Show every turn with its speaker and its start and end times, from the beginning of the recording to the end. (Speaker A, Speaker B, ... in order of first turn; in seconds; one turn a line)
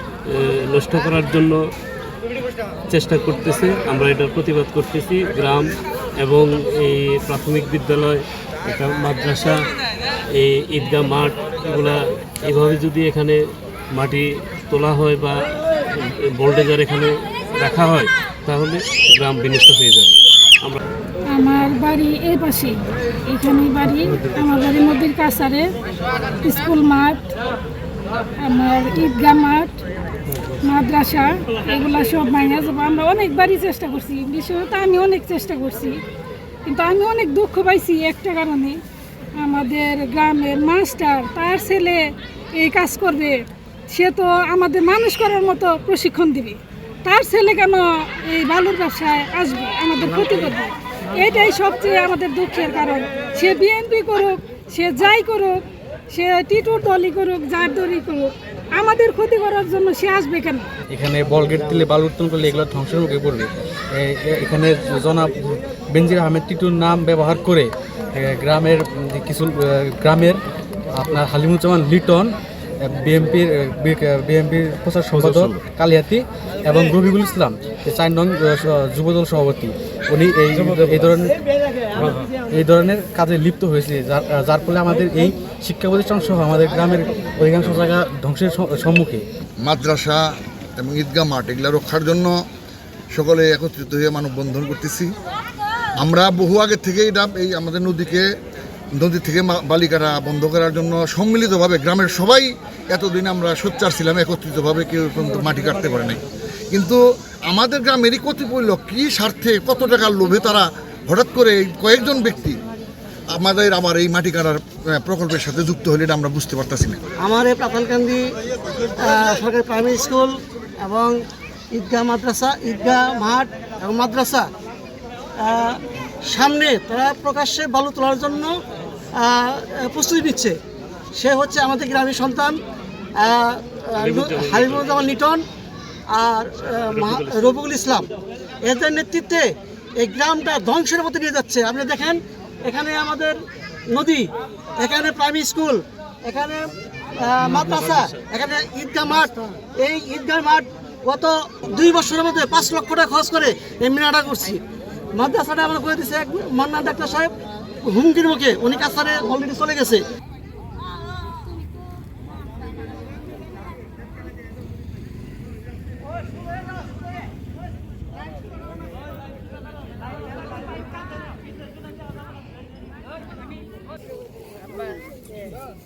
Speaker A: 0.3-1.6
Speaker A: 2.9-9.6
Speaker A: 10.4-13.4
Speaker A: 13.9-15.5
Speaker A: 16.4-20.8
Speaker B: 21.3-25.7
Speaker B: 26.4-27.3
Speaker B: 28.4-29.8
Speaker B: 30.6-36.0
Speaker B: 36.6-38.8
Speaker B: 39.4-60.7
Speaker C: 60.9-65.3
Speaker C: 65.9-70.4
Speaker C: 70.9-81.4
Speaker C: 82.4-89.2
Speaker D: 89.6-92.4
Speaker D: 93.1-95.1
Speaker D: 96.0-98.3
Speaker D: 99.0-106.2
Speaker D: 106.7-112.6
Speaker D: 113.3-117.0
Speaker E: 117.2-118.2
Speaker E: 119.0-121.2
Speaker E: 121.7-124.5
Speaker E: 125.4-128.5
Speaker E: 129.2-130.6
Speaker E: 131.2-132.6
Speaker E: 133.2-135.4
Speaker A: 134.0-135.1
Speaker E: 136.1-138.1
Speaker A: 136.9-137.5
Speaker E: 138.6-139.5
Speaker E: 140.0-143.4
Speaker E: 143.9-144.3
Speaker E: 144.8-146.7
Speaker E: 147.2-154.6
Speaker E: 155.1-157.3
Speaker E: 157.8-160.0